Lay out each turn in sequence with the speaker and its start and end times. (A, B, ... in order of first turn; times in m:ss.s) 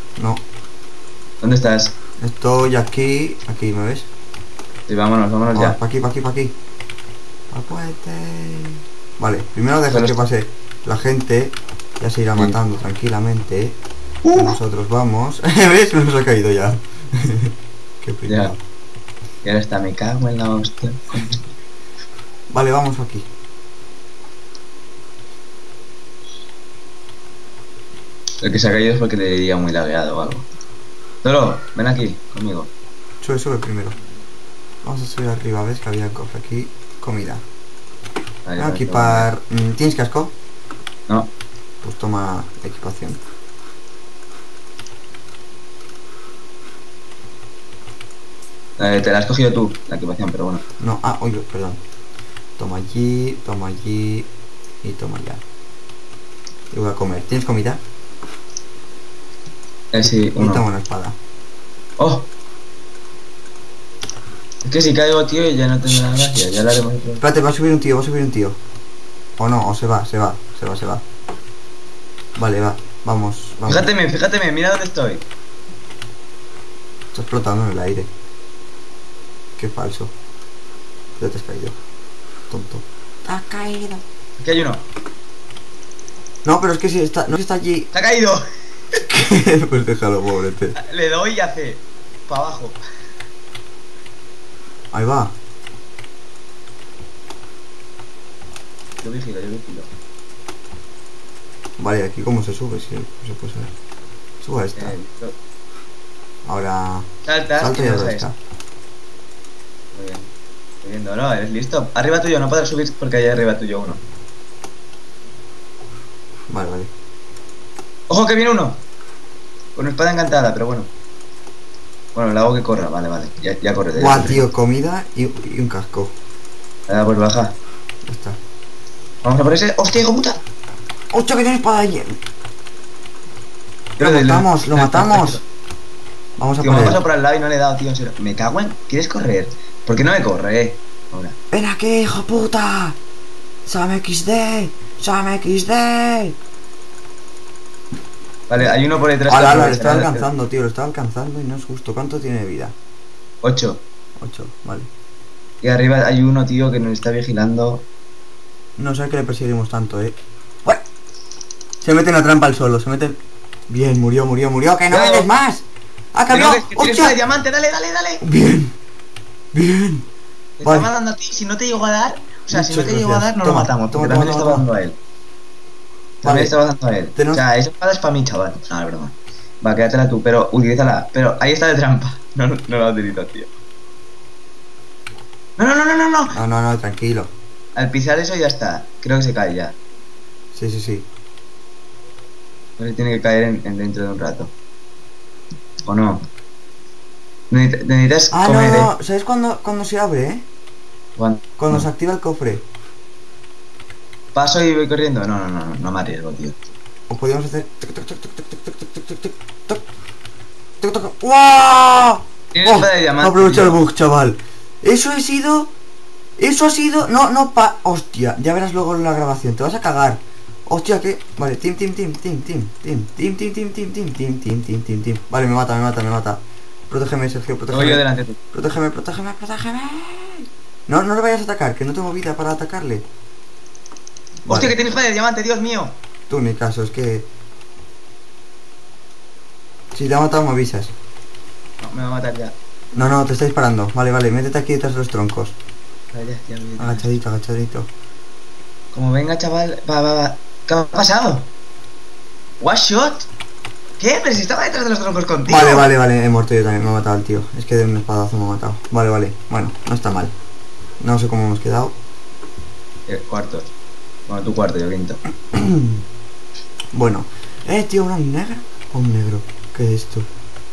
0:00.2-0:00.4 A
0:01.4-0:01.9 B
0:02.2-0:04.1 A
0:04.9-0:05.8 B
0:05.5-0:06.5 A
0:07.5-0:13.8 A
0:09.9-0:10.3 B
0:14.2-0:14.6 B
0:14.3-0:18.6 A
0:18.3-0:18.5 B
0:19.4-0:21.5 B
0:22.5-0:23.3 A
0:28.4-0:30.5 B
0:31.2-0:32.7 B
0:33.2-0:34.0 A
0:34.8-0:37.4 A
0:38.4-0:39.3 B
0:38.6-0:40.3 A
0:41.1-0:41.3 B
0:41.8-0:43.2 A
0:48.8-0:50.6 B
0:50.8-0:51.8 A
0:52.6-0:54.3 A
0:54.8-0:55.4 A
0:56.7-0:57.8 A
0:59.9-1:00.6 B
1:00.0-1:01.2 A
1:02.0-1:02.3 B
1:04.6-1:07.2 B
1:07.2-1:08.6 A
1:09.4-1:11.0 A
1:12.4-1:13.9 A
1:13.7-1:15.2 B
1:17.1-1:18.1 A
1:19.6-1:20.1 A
1:21.2-1:21.8 A
1:22.5-1:24.0 A
1:24.4-1:24.8 B
1:26.4-1:27.9 A
1:27.9-1:28.4 B
1:29.0-1:30.8 A
1:30.8-1:32.8 B
1:34.9-1:35.3 A
1:39.0-1:39.9 B
1:41.8-1:43.7 A
1:44.4-1:45.0 A
1:44.8-1:45.4 B
1:46.4-1:48.4 A
1:47.2-1:48.3 B
1:49.9-1:54.0 B
1:56.5-1:56.9 A
1:58.1-1:58.8 B
1:59.8-2:00.9 B
2:02.1-2:04.4 B
2:03.9-2:06.1 A
2:06.9-2:07.5 B
2:08.0-2:08.4 A
2:09.2-2:10.4 B
2:11.1-2:12.2 A
2:14.0-2:15.4 B
2:14.0-2:15.4 A
2:16.4-2:17.0 A
2:16.6-2:21.4 B
2:21.5-2:23.0 A
2:23.6-2:26.4 A
2:28.5-2:30.3 B
2:28.6-2:32.7 A
2:33.4-2:33.8 B
2:34.2-2:34.9 A
2:35.6-2:37.8 B
2:38.8-2:40.8 A
2:41.8-2:47.2 A
2:44.9-2:45.3 B
2:46.3-2:48.2 B
2:48.2-2:48.7 A
2:49.5-2:50.1 A
2:50.6-2:55.0 B
2:52.5-2:54.6 A
2:56.2-3:03.5 B
2:56.2-2:56.5 A
2:57.2-2:57.4 A
3:05.6-3:06.3 B
3:06.3-3:07.3 A
3:07.7-3:09.8 B
3:10.5-3:11.1 A
3:12.8-3:14.5 B
3:15.8-3:16.2 B
3:17.5-3:18.9 B
3:18.3-3:20.5 A
3:21.2-3:21.8 B
3:21.6-3:22.6 A
3:24.3-3:26.6 B
3:27.1-3:29.8 A
3:30.8-3:35.7 A
3:32.5-3:33.8 B
3:36.4-3:48.0 A
3:47.7-3:48.4 B
3:48.5-3:53.0 A
3:54.4-3:56.0 B
3:54.5-3:54.8 A
3:56.3-3:57.3 A
3:59.9-4:00.9 A
4:01.8-4:02.5 B
4:02.9-4:05.6 A
4:06.1-4:07.0 B
4:06.8-4:07.9 A
4:08.9-4:11.5 B
4:12.6-4:13.3 B
4:14.0-4:15.9 B
4:15.5-4:20.3 A
4:21.0-4:22.0 A
4:23.1-4:23.7 B
4:24.3-4:25.2 B
4:25.5-4:26.0 A
4:26.9-4:30.3 A